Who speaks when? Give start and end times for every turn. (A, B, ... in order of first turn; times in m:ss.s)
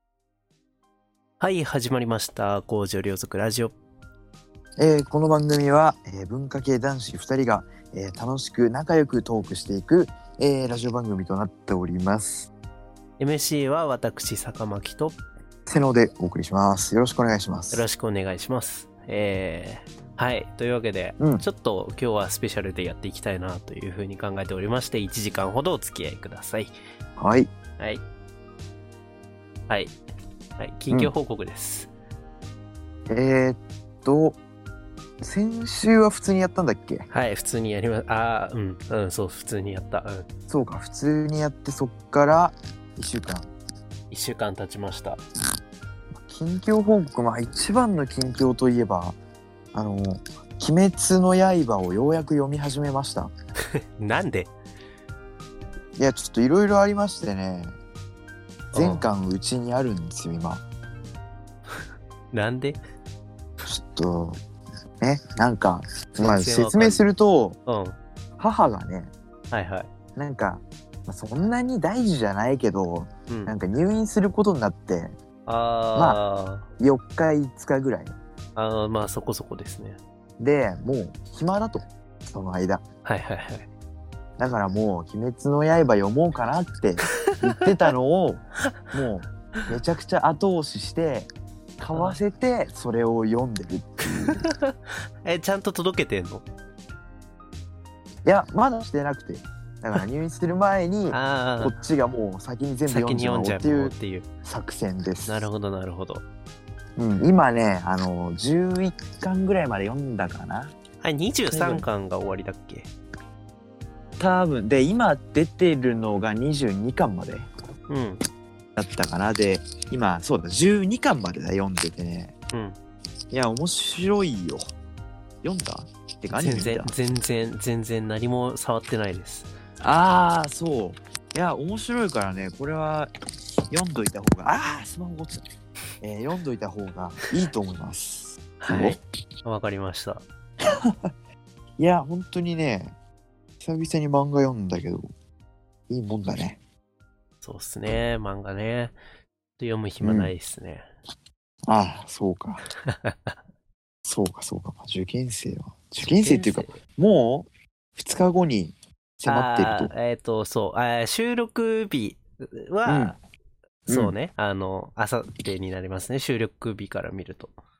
0:01.4-0:03.7 A
0:04.8-0:12.5 B
0:13.2-0:15.2 A
0:15.7-0:17.8 B
0:17.7-0:26.7 A
0:21.2-0:21.4 B
0:27.2-0:27.5 B
0:29.7-0:30.0 A
0:30.6-0:31.9 A
0:33.1-0:34.4 B
0:35.2-0:37.0 B
0:37.1-0:40.3 A
0:40.5-0:43.5 B
0:44.1-0:45.2 A
0:46.2-0:49.2 B
0:49.7-0:53.3 B
0:54.0-0:54.5 A
0:56.0-0:57.7 B
0:58.7-0:59.0 A
0:58.7-1:00.6 B
1:02.3-1:02.8 A
1:03.6-1:04.4 B
1:05.0-1:07.6 B
1:06.2-1:07.1 A
1:07.7-1:08.0 A
1:08.4-1:09.1 B
1:09.5-1:09.9 A
1:10.2-1:15.1 B
1:13.3-1:13.6 A
1:15.4-1:16.7 A
1:16.8-1:18.1 B
1:18.6-1:20.0 A
1:20.4-1:22.8 B
1:23.0-1:23.7 A
1:24.4-1:31.3 B
1:31.8-1:34.4 B
1:31.9-1:32.2 A
1:34.2-1:36.4 A
1:38.2-1:45.4 B
1:41.1-1:41.7 A
1:42.9-1:44.3 A
1:45.3-1:46.2 A
1:47.0-1:50.8 B
1:51.0-1:52.9 A
1:51.5-1:51.9 B
1:54.2-1:57.4 B
1:57.9-1:58.2 A
1:58.8-2:02.3 B
2:03.3-2:04.7 B
2:05.4-2:06.9 B
2:06.3-2:09.5 A
2:09.8-2:13.1 B
2:13.7-2:15.4 B
2:16.0-2:19.0 B
2:18.6-2:20.2 A
2:20.7-2:21.0 B
2:21.8-2:22.9 B
2:23.6-2:25.1 B
2:25.9-2:26.6 B
2:27.4-2:28.9 A
2:29.6-2:30.9 A
2:30.0-2:30.3 B
2:31.7-2:32.6 B
2:32.8-2:33.4 A
2:34.0-2:39.9 B
2:36.0-2:36.8 A
2:39.2-2:43.2 A
2:42.9-2:43.2 B
2:43.9-2:47.5 A
2:43.9-2:44.1 B